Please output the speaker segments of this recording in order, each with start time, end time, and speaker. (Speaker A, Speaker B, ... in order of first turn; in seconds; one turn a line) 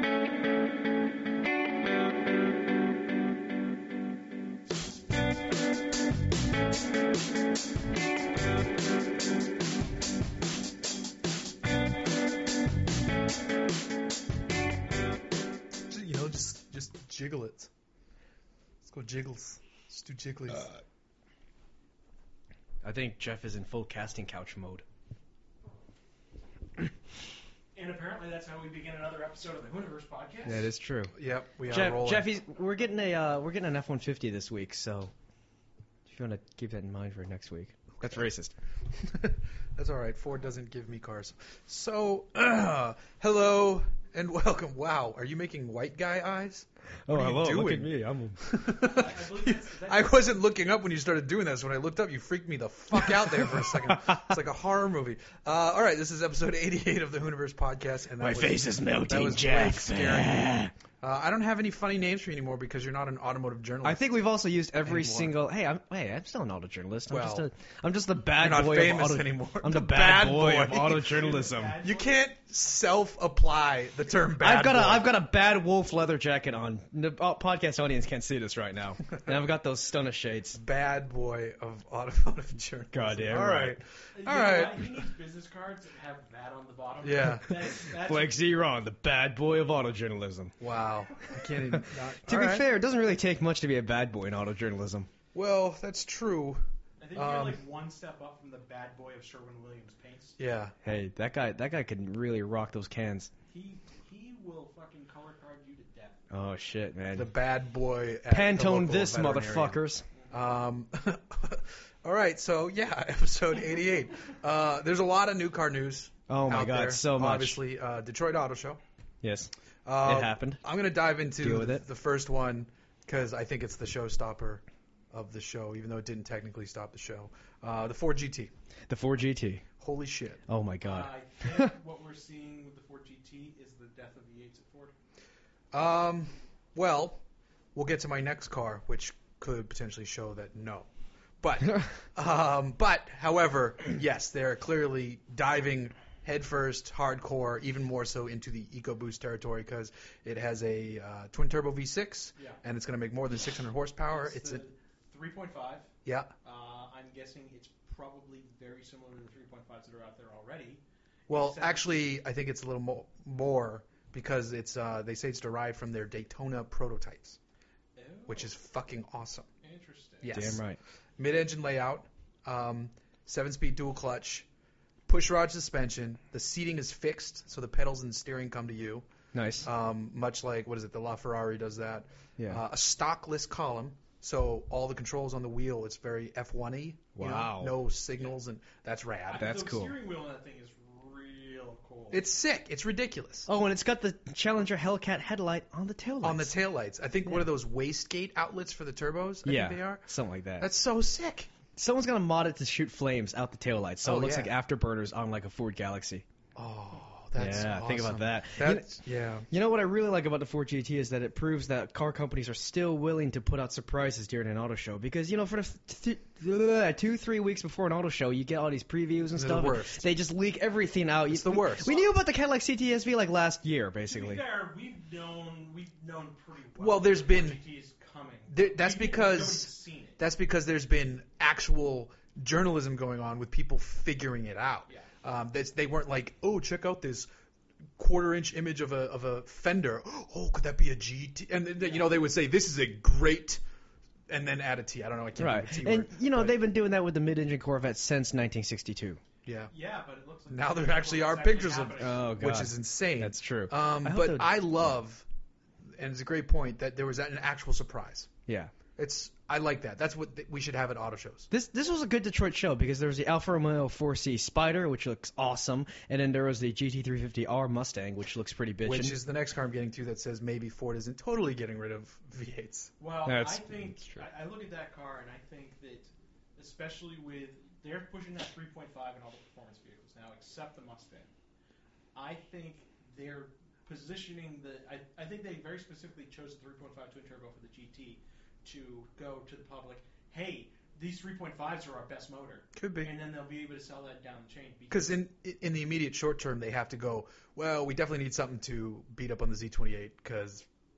Speaker A: 15.9-17.7
Speaker A: 18.8-20.8
Speaker B: 22.8-24.8
Speaker C: 27.8-30.7
Speaker B: 30.5-31.1
Speaker A: 31.1-32.3
Speaker B: 31.7-35.1
Speaker B: 36.1-38.5
Speaker A: 38.9-60.4
Speaker B: 47.0-48.5
Speaker C: 48.7-50.3
Speaker B: 53.1-54.4
Speaker B: 58.2-60.7
Speaker A: 61.0-64.0
Speaker B: 63.8-71.8
Speaker A: 64.8-65.4
Speaker A: 67.1-67.5
Speaker A: 68.4-71.1
Speaker C: 71.0-72.2
Speaker A: 71.8-75.1
Speaker B: 74.4-80.6
Speaker A: 80.5-84.8
Speaker B: 82.9-83.8
Speaker C: 84.1-88.4
Speaker A: 87.0-87.5
Speaker B: 88.0-90.5
Speaker A: 90.6-92.7
Speaker B: 91.2-95.1
Speaker A: 95.3-97.6
Speaker C: 97.0-100.4
Speaker A: 100.4-100.8
Speaker B: 100.8-103.3
Speaker C: 103.5-106.3
Speaker B: 106.3-107.3
Speaker A: 107.1-118.8
Speaker B: 108.3-110.0
Speaker B: 116.3-117.6
Speaker B: 119.2-119.5
Speaker A: 119.8-128.5
Speaker B: 120.0-120.6
Speaker B: 121.4-121.8
Speaker B: 128.9-129.7
Speaker A: 129.8-130.4
Speaker B: 130.5-131.7
Speaker C: 130.8-134.9
Speaker A: 135.7-137.2
Speaker A: 137.8-140.9
Speaker A: 141.4-154.6
Speaker C: 154.1-155.9
Speaker A: 156.1-156.3
Speaker C: 156.4-162.1
Speaker A: 161.3-167.4
Speaker C: 168.0-168.5
Speaker A: 168.3-169.5
Speaker C: 169.6-170.4
Speaker A: 170.2-170.6
Speaker B: 170.3-170.8
Speaker A: 171.2-174.5
Speaker A: 175.1-179.1
Speaker B: 179.3-179.7
Speaker A: 179.6-189.6
Speaker B: 182.4-182.6
Speaker B: 187.2-187.8
Speaker C: 189.3-192.3
Speaker B: 189.4-189.9
Speaker A: 192.1-193.5
Speaker B: 193.5-196.5
Speaker A: 196.2-200.1
Speaker B: 199.4-200.7
Speaker A: 200.6-201.5
Speaker B: 201.7-206.2
Speaker A: 204.0-204.5
Speaker A: 206.6-209.5
Speaker B: 207.4-224.4
Speaker A: 219.3-220.1
Speaker A: 221.3-221.9
Speaker C: 221.8-222.1
Speaker C: 224.1-230.2
Speaker A: 226.8-227.6
Speaker A: 228.5-237.3
Speaker A: 238.0-243.6
Speaker C: 241.8-242.2
Speaker A: 244.3-246.6
Speaker B: 245.4-249.2
Speaker A: 249.4-249.7
Speaker C: 249.7-252.3
Speaker A: 250.5-255.3
Speaker B: 252.0-254.6
Speaker A: 255.9-258.3
Speaker B: 258.5-258.7
Speaker A: 259.0-261.5
Speaker B: 261.5-269.2
Speaker A: 268.8-272.9
Speaker C: 273.0-281.3
Speaker B: 273.2-274.2
Speaker C: 282.1-295.2
Speaker A: 292.8-293.1
Speaker A: 294.9-300.7